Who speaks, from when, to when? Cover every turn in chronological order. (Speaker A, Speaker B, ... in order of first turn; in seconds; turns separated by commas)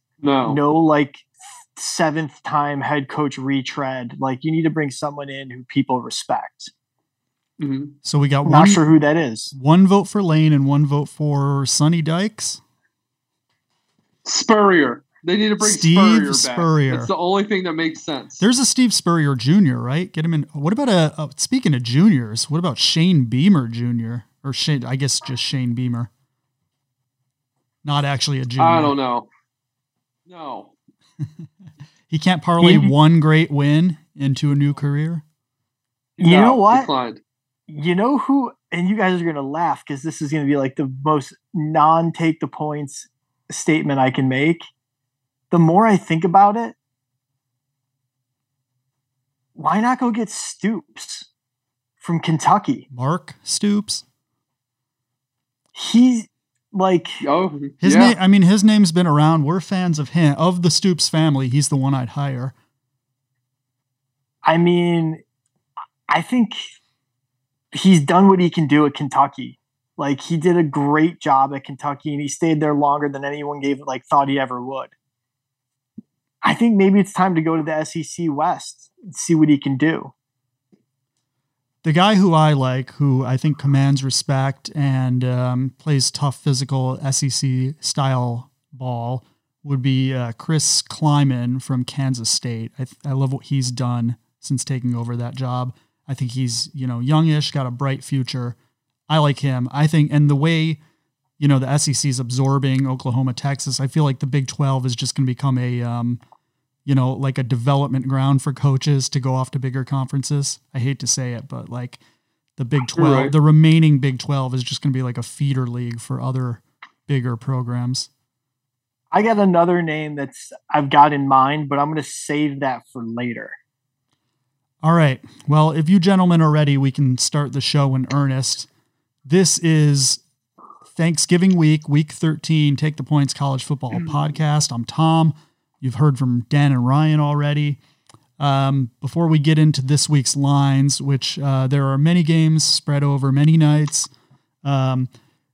Speaker A: 0.2-0.6, Speaker B: 0.5-6.7, Speaker A: 7.6-7.9, Speaker C: 8.0-8.8, Speaker B: 8.4-9.5, Speaker C: 9.5-12.6, Speaker A: 14.2-18.4, Speaker C: 15.6-17.1, Speaker C: 18.4-26.1, Speaker C: 27.8-28.9, Speaker A: 28.6-29.3, Speaker A: 30.3-30.7, Speaker C: 32.1-35.2, Speaker B: 32.6-32.9, Speaker A: 36.2-37.2, Speaker B: 36.2-36.9, Speaker B: 37.7-44.6, Speaker B: 45.5-46.7, Speaker B: 49.5-51.3, Speaker B: 52.0-52.9, Speaker C: 52.9-54.0, Speaker B: 55.7-57.2, Speaker A: 57.2-58.1, Speaker C: 57.8-62.5, Speaker B: 64.4-65.2, Speaker B: 66.1-66.6, Speaker B: 67.7-74.9, Speaker B: 76.4-80.1, Speaker C: 81.8-98.5, Speaker C: 99.1-100.8, Speaker C: 101.4-106.2, Speaker C: 106.8-112.0, Speaker C: 112.6-118.1, Speaker A: 113.0-113.3, Speaker B: 119.1-123.6, Speaker C: 124.8-128.7, Speaker C: 129.2-130.2, Speaker C: 130.9-137.8, Speaker C: 138.4-144.1, Speaker C: 144.6-145.1